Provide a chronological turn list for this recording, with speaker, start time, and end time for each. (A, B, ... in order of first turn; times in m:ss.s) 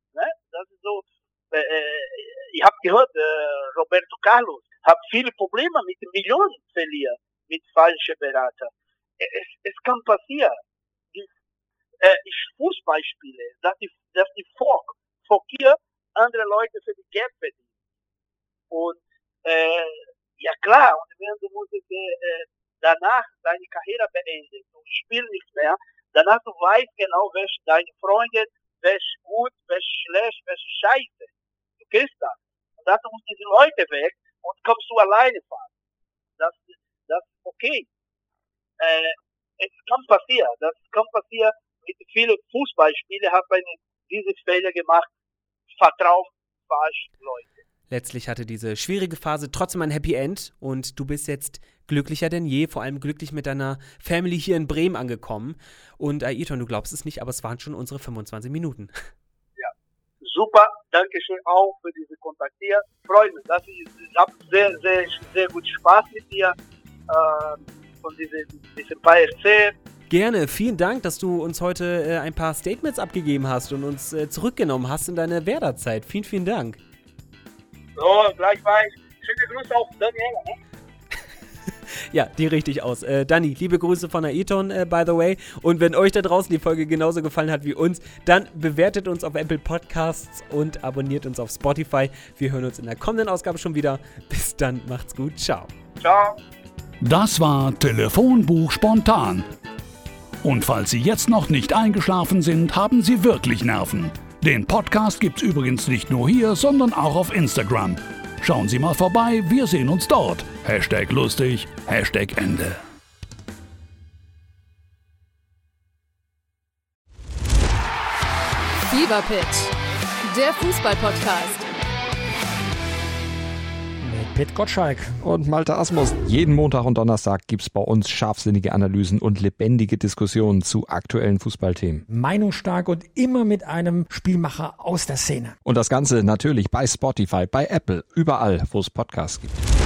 0:00.1-0:10.6 A
0:12.0-0:17.6 A
0:18.7-0:35.7 A
0:36.4-0:37.9 A
0:38.8-0:45.1 A
0:45.7-0:47.5 A
0:47.9-0:58.9 B
1:00.2-1:06.6 A
1:07.1-1:09.7 A
1:10.1-1:16.8 B
1:18.0-1:20.6 A
1:22.1-1:35.7 B
1:36.0-1:36.4 A
1:37.0-1:39.5 C
1:40.4-1:52.8 C
1:58.9-2:01.7 D
2:04.0-2:05.1 E
2:05.2-2:12.0 F
2:12.1-2:15.6 E
2:15.6-2:19.6 F